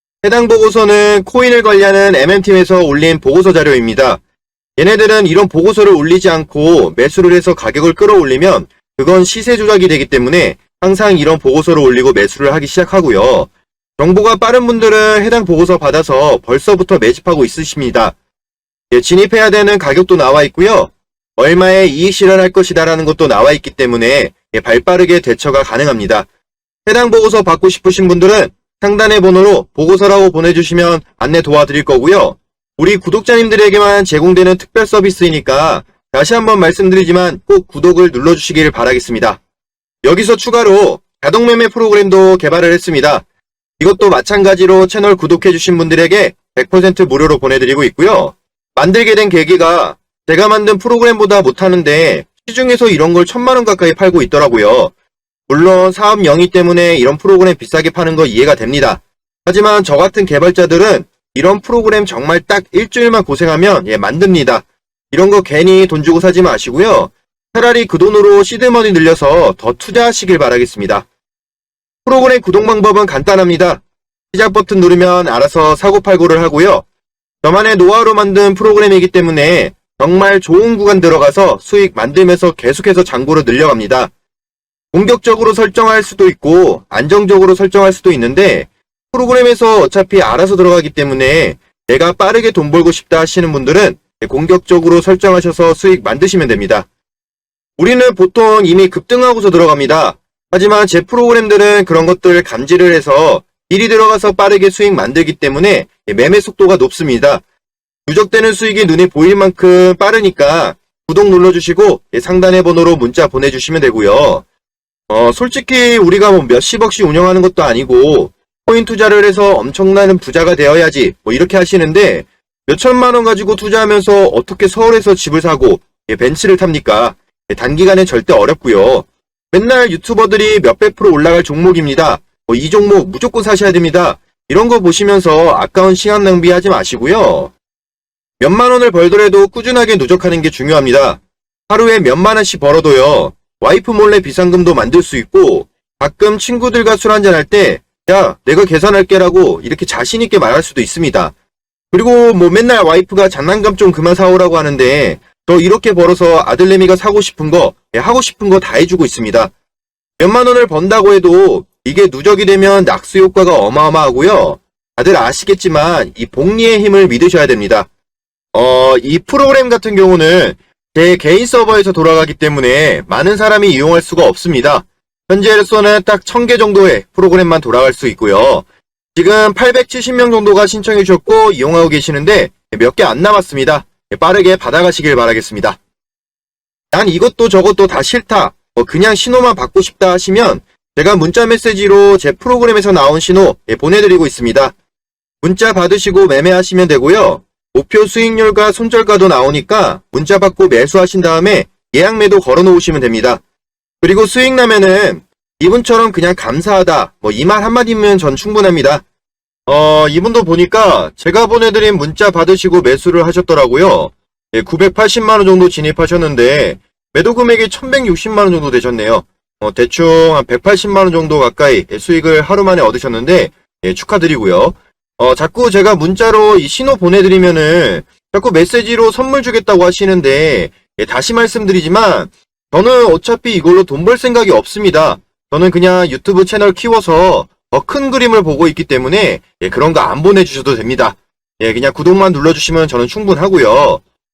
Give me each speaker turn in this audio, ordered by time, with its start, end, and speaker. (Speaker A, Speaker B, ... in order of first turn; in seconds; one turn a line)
Speaker A: 0.2-4.2
Speaker A: 4.8-18.1
Speaker A: 18.9-26.3
Speaker A: 26.9-39.4
Speaker A: 40.0-43.2
Speaker A: 43.8-54.9
Speaker A: 55.5-71.1
Speaker A: 72.0-76.8
Speaker A: 77.4-84.1
Speaker A: 84.9-96.9
Speaker A: 97.8-107.4
Speaker A: 108.0-114.4
Speaker A: 115.1-137.5
Speaker A: 138.4-151.3
Speaker A: 151.9-159.5
Speaker A: 160.2-167.9
Speaker A: 168.5-185.8
Speaker A: 186.9-194.7
Speaker A: 195.4-203.4
Speaker A: 204.0-209.0
Speaker A: 209.7-244.0